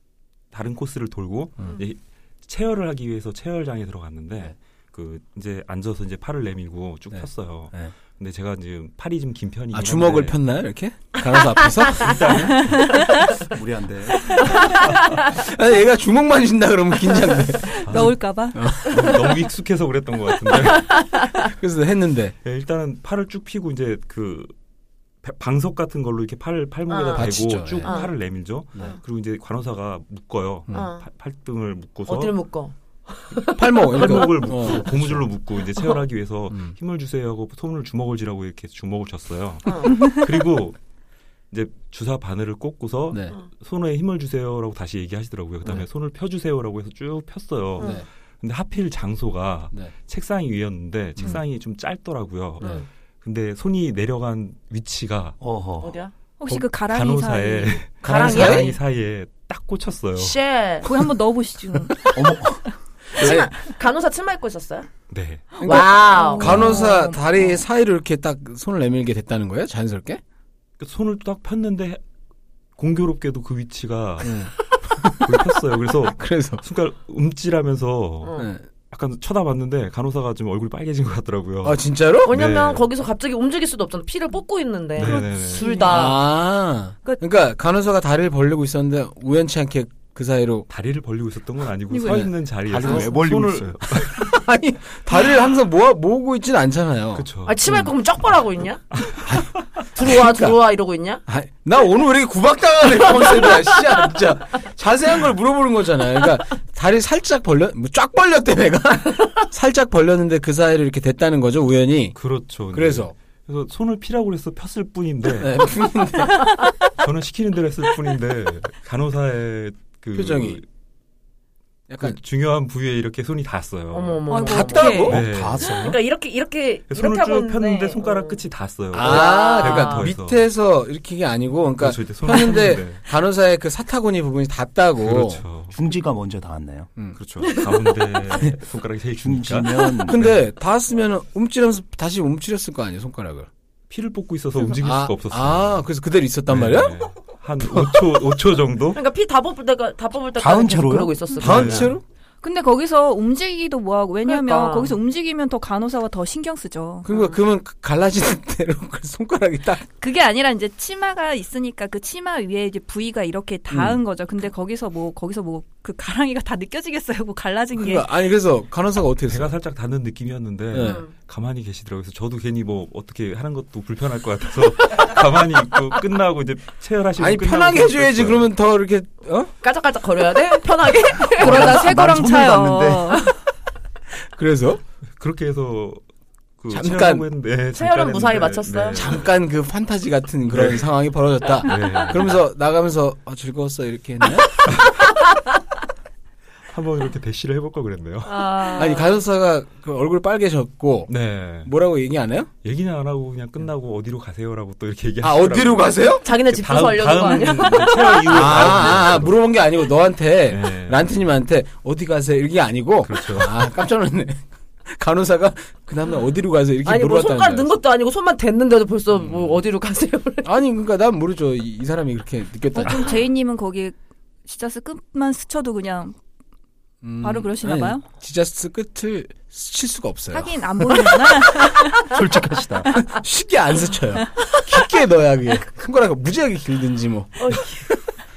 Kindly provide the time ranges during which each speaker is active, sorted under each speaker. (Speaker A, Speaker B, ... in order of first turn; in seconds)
Speaker A: 0.5-10.4, 11.9-12.9, 14.6-15.0, 17.8-18.2, 18.8-21.0, 22.4-24.6, 25.2-32.3, 33.9-40.8, 41.5-55.4, 56.9-60.4, 65.1-65.6, 66.4-66.8, 70.8-72.0, 72.8-74.4, 75.2-82.9, 85.0-85.7, 90.7-94.4, 97.2-97.6, 98.9-99.8, 112.2-115.7, 116.9-120.7, 122.0-124.2, 125.0-125.9, 126.9-130.5, 131.8-133.0, 135.0-135.8, 137.2-140.4, 143.9-145.8, 146.5-149.0, 151.4-151.9, 169.3-178.5, 185.1-186.0, 186.6-189.3, 190.5-190.9, 191.6-192.4, 196.7-198.8, 201.1-201.7, 202.6-209.4, 210.5-211.2, 213.0-213.7, 232.1-232.9
Speaker B: 7.1-7.9, 9.7-12.6, 15.2-19.3, 21.4-22.4, 27.1-28.1, 33.5-35.3, 36.5-36.8, 43.1-43.4, 47.8-48.1, 58.0-58.7, 61.9-63.5, 65.6-70.2, 74.2-76.6, 78.4-78.7, 81.6-82.4, 85.9-90.7, 94.0-97.9, 99.2-100.6, 101.3-112.2, 112.7-113.1, 115.4-116.6, 120.1-120.6, 121.9-122.2, 124.5-125.2, 128.9-135.4, 140.1-143.5, 144.8-147.0, 147.6-148.0, 151.4-152.0, 157.1-159.8, 163.7-164.0, 167.8-169.6, 170.7-171.0, 177.2-179.5, 184.2-184.8, 186.7-187.3, 188.9-194.6, 198.8-202.5, 205.2-206.3, 208.3-217.8, 220.4-223.2, 227.0-231.4, 232.9-238.0
Speaker C: 12.6-13.1, 17.8-19.0, 56.4-57.9, 60.8-62.3, 65.7-67.6, 85.0-86.1, 91.9-92.3, 124.3-125.2, 152.4-157.1, 160.0-168.1, 181.4-183.3, 222.8-226.2, 227.2-228.0, 230.3-232.1
Speaker D: 13.3-14.8, 55.4-56.0, 62.2-62.4, 92.7-94.0, 125.0-126.0, 135.7-136.9, 139.2-140.3, 150.3-151.9, 181.3-183.3
Speaker E: 14.4-15.2, 20.7-21.3, 26.9-28.1, 30.7-31.1, 32.1-34.6, 39.7-40.1, 52.6-52.9, 55.8-56.1, 58.0-58.8, 60.2-61.0, 63.1-64.9, 65.6-66.9, 78.2-78.5, 82.2-86.2, 97.5-98.9, 100.0-101.2, 103.1-103.9, 123.9-125.1, 125.7-128.4, 129.0-130.1, 137.5-137.8, 148.9-151.9, 154.2-155.0, 157.1-157.4, 170.8-171.1, 179.6-181.9, 187.7-189.2, 198.2-199.2, 206.2-208.7, 216.8-220.5, 237.4-238.0